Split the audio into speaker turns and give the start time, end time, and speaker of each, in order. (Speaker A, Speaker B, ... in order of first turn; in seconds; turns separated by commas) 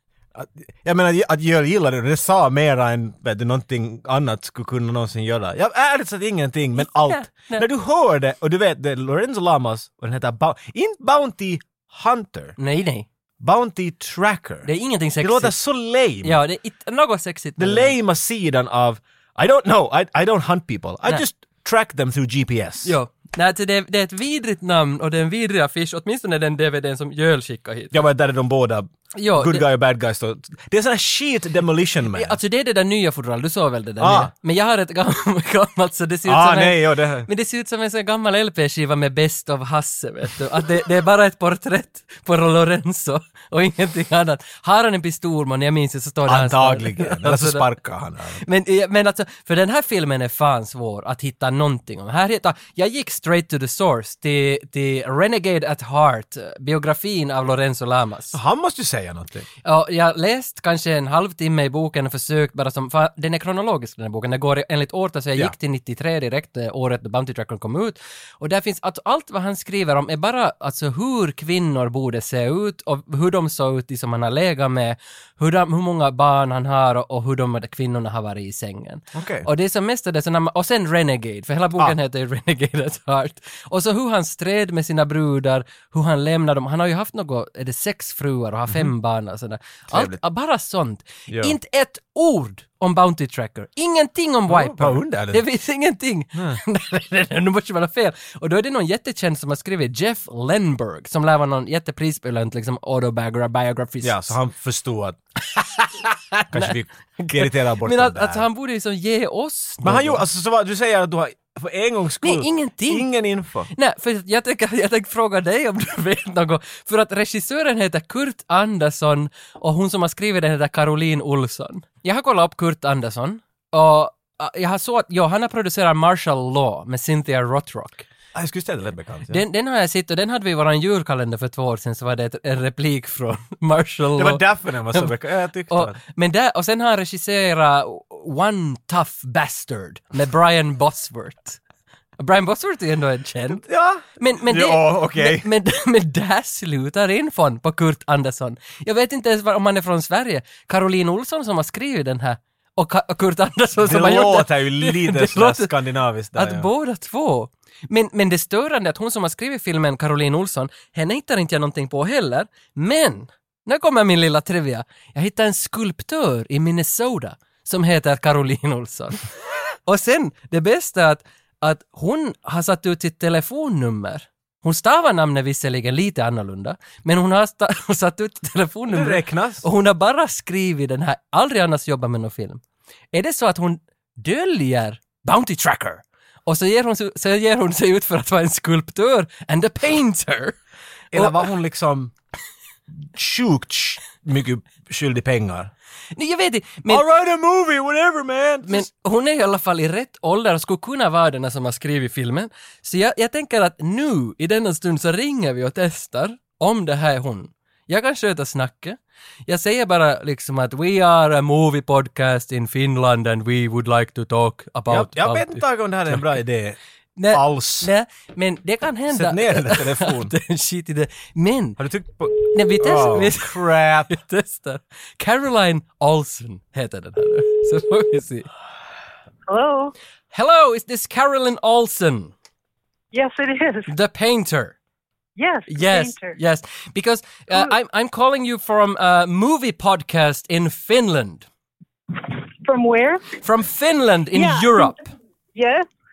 Speaker A: 0.3-12.6, Speaker B: 6.8-7.7, Speaker B: 12.6-13.1, Speaker A: 13.4-14.7, Speaker B: 14.6-15.6, Speaker A: 15.2-16.4, Speaker B: 16.2-17.9, Speaker A: 17.6-22.9, Speaker B: 22.8-28.0, Speaker A: 27.9-32.4, Speaker B: 29.1-29.6, Speaker B: 32.1-47.7, Speaker A: 34.0-34.3, Speaker A: 36.2-37.3, Speaker A: 46.3-48.4, Speaker B: 48.4-58.4, Speaker A: 58.3-59.5, Speaker B: 59.6-104.3, Speaker A: 79.1-79.5, Speaker A: 89.9-90.2, Speaker A: 91.3-91.5, Speaker A: 94.5-95.4, Speaker A: 96.3-96.6, Speaker A: 104.0-105.2, Speaker B: 105.5-110.2, Speaker A: 106.5-108.4, Speaker A: 109.8-113.7, Speaker B: 112.2-113.1, Speaker B: 113.7-128.1, Speaker A: 128.3-129.4, Speaker B: 129.3-135.1, Speaker A: 134.2-136.0, Speaker B: 135.7-141.6, Speaker B: 142.2-143.6, Speaker A: 143.5-145.5, Speaker B: 144.2-155.7, Speaker A: 153.8-156.7, Speaker B: 156.3-169.2, Speaker B: 169.9-182.6, Speaker A: 178.9-179.7, Speaker B: 183.1-190.6, Speaker A: 191.1-192.1, Speaker B: 191.1-191.5, Speaker A: 193.0-195.7, Speaker B: 196.2-197.0, Speaker A: 196.9-198.9, Speaker B: 198.7-216.2, Speaker A: 214.9-216.8, Speaker B: 217.2-221.8, Speaker A: 217.3-217.9, Speaker A: 219.1-220.3, Speaker A: 221.8-224.1, Speaker B: 222.4-228.5, Speaker C: 229.5-229.9, Speaker B: 230.3-232.3, Speaker C: 233.1-233.9, Speaker B: 233.9-234.8, Speaker C: 235.4-236.4, Speaker B: 235.7-241.4, Speaker C: 242.2-243.3, Speaker B: 243.4-245.1, Speaker C: 244.3-244.9, Speaker C: 245.5-245.9